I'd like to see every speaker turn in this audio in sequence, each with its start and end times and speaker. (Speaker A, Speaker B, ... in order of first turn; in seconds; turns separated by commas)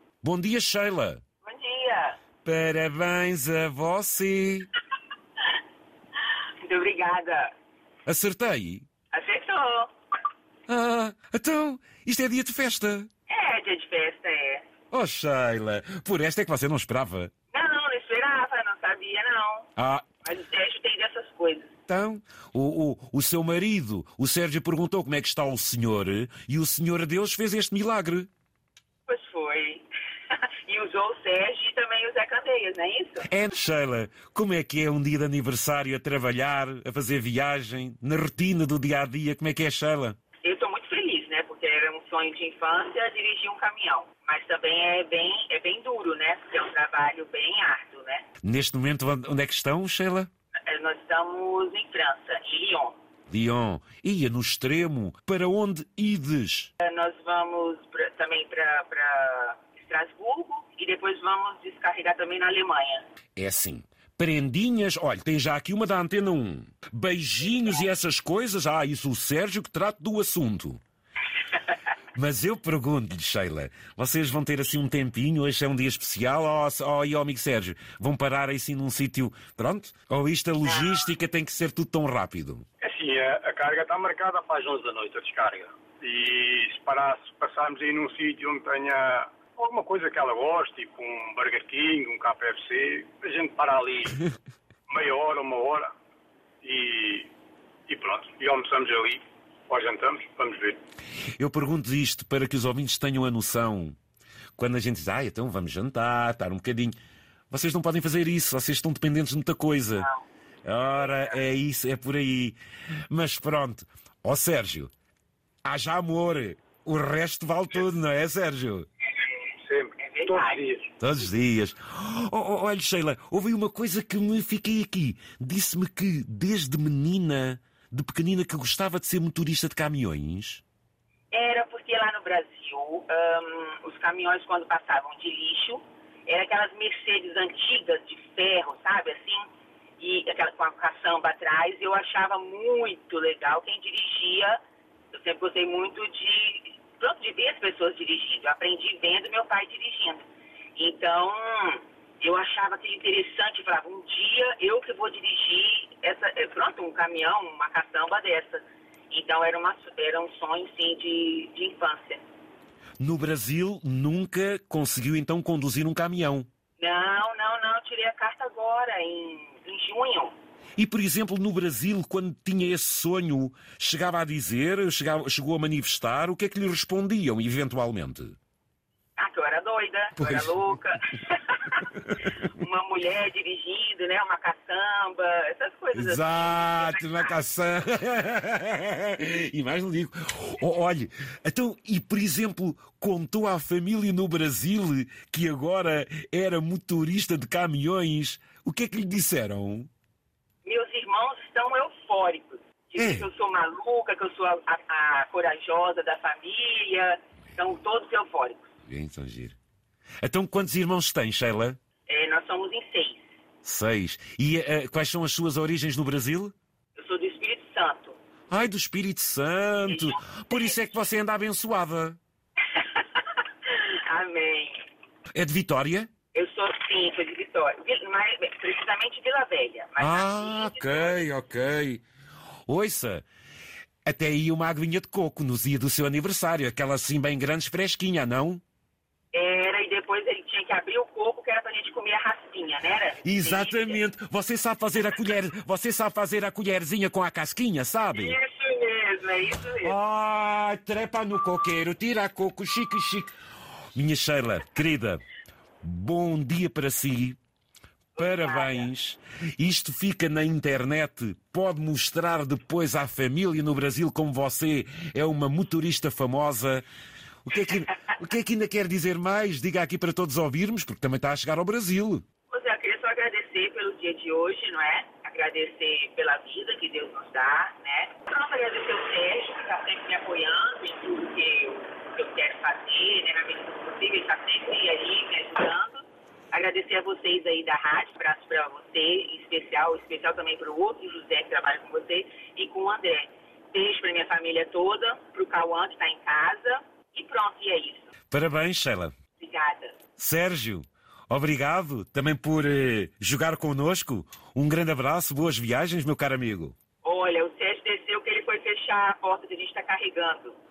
Speaker A: 0.2-1.2, Speaker B: 1.4-2.2, Speaker A: 2.4-4.7, Speaker B: 6.6-7.5, Speaker A: 8.1-8.9, Speaker B: 9.1-9.9, Speaker A: 10.7-13.1, Speaker B: 13.3-14.7, Speaker A: 14.9-17.3, Speaker B: 17.5-19.7, Speaker A: 19.8-20.1, Speaker B: 20.2-21.8, Speaker A: 21.9-28.3, Speaker B: 29.1-33.3, Speaker A: 33.3-40.2, Speaker B: 40.4-48.2, Speaker A: 48.4-50.3, Speaker B: 50.7-53.0, Speaker A: 53.3-56.7, Speaker B: 56.8-63.0, Speaker A: 63.4-70.8, Speaker A: 72.1-82.6, Speaker B: 80.7-81.1, Speaker C: 82.8-94.2, Speaker C: 94.9-95.9, Speaker C: 96.6-97.3, Speaker C: 97.9-100.8, Speaker A: 101.4-104.0, Speaker A: 104.6-107.0, Speaker A: 107.5-110.1, Speaker A: 110.6-112.6, Speaker B: 111.0-111.4, Speaker A: 113.1-114.9, Speaker A: 115.6-118.9, Speaker C: 119.6-120.9, Speaker B: 120.0-120.6, Speaker A: 121.0-130.6, Speaker B: 131.3-139.5, Speaker B: 140.0-144.6, Speaker B: 145.1-150.2, Speaker B: 150.8-162.2, Speaker A: 163.0-166.5, Speaker B: 166.8-170.3, Speaker A: 170.8-178.3, Speaker B: 179.2-181.9, Speaker A: 180.2-180.8, Speaker A: 182.0-182.3, Speaker B: 182.4-187.3, Speaker A: 185.9-199.9, Speaker B: 200.7-208.7, Speaker A: 203.0-203.3, Speaker A: 208.8-209.6, Speaker A: 210.2-211.8, Speaker B: 212.1-213.3, Speaker A: 213.6-216.5, Speaker B: 217.0-218.2, Speaker A: 218.5-222.2, Speaker B: 219.8-220.8, Speaker B: 222.7-224.9, Speaker A: 225.3-226.1, Speaker B: 226.3-231.2, Speaker A: 230.0-232.0, Speaker A: 232.7-233.2, Speaker A: 234.0-238.6, Speaker B: 239.3-244.0, Speaker A: 243.2-248.4, Speaker B: 248.1-250.0, Speaker A: 249.8-253.3, Speaker A: 253.9-255.2, Speaker A: 255.8-257.4, Speaker B: 258.1-258.9, Speaker A: 258.2-266.9, Speaker A: 267.4-272.2, Speaker B: 272.5-298.1, Speaker A: 298.3-299.1, Speaker B: 299.4-300.0, Speaker A: 300.2-306.8, Speaker B: 307.0-310.6